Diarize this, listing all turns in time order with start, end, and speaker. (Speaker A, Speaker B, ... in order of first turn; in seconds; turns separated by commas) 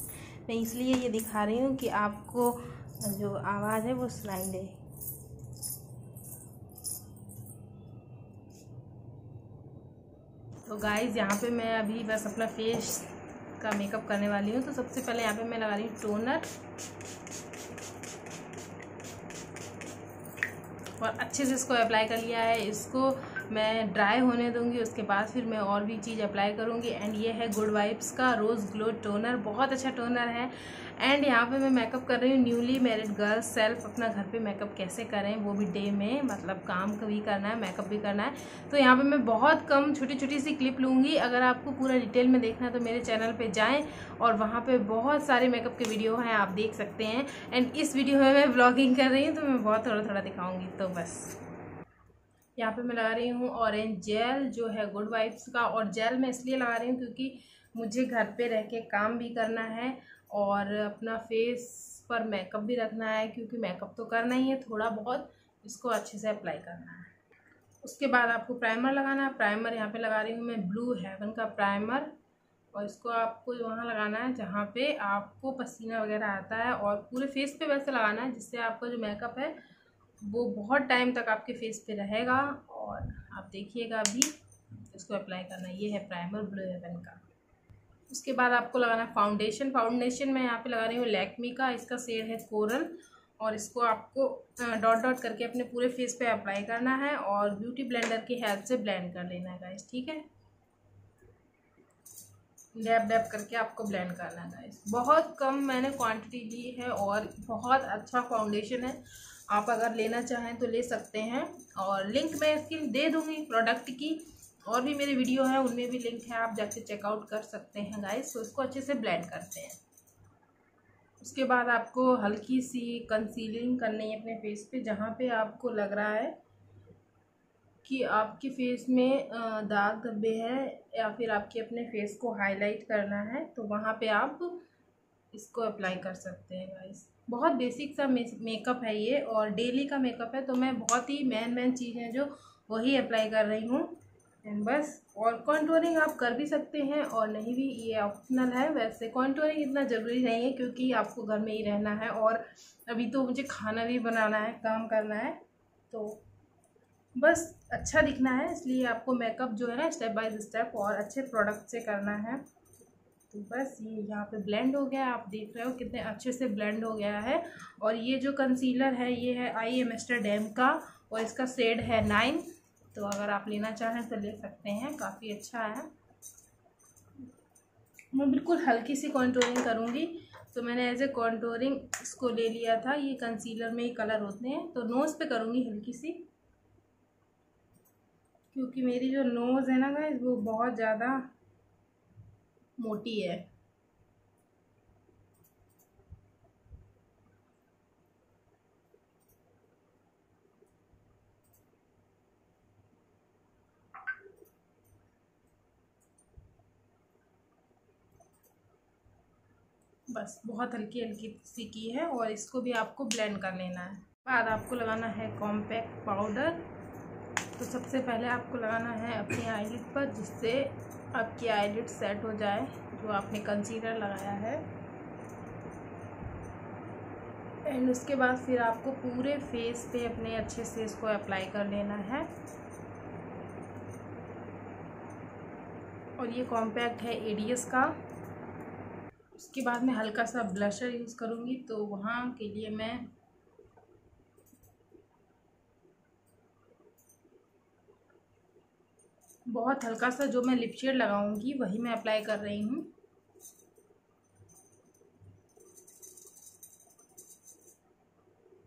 Speaker A: 0.5-4.7, Speaker A: 10.7-16.5, Speaker A: 21.0-51.4, Speaker A: 52.6-67.1, Speaker A: 67.8-72.1, Speaker A: 72.7-79.6, Speaker A: 80.2-84.3, Speaker A: 84.9-87.2, Speaker A: 88.1-100.2, Speaker A: 102.7-119.8, Speaker A: 121.2-126.3, Speaker A: 127.8-134.6, Speaker A: 135.3-156.2, Speaker A: 157.2-162.4, Speaker A: 163.3-175.9, Speaker A: 178.1-186.2, Speaker A: 188.5-191.2, Speaker A: 192.8-193.4, Speaker A: 210.1-216.6, Speaker A: 217.6-224.7, Speaker A: 227.7-232.3, Speaker A: 236.2-237.9, Speaker A: 239.3-243.1, Speaker A: 249.5-252.9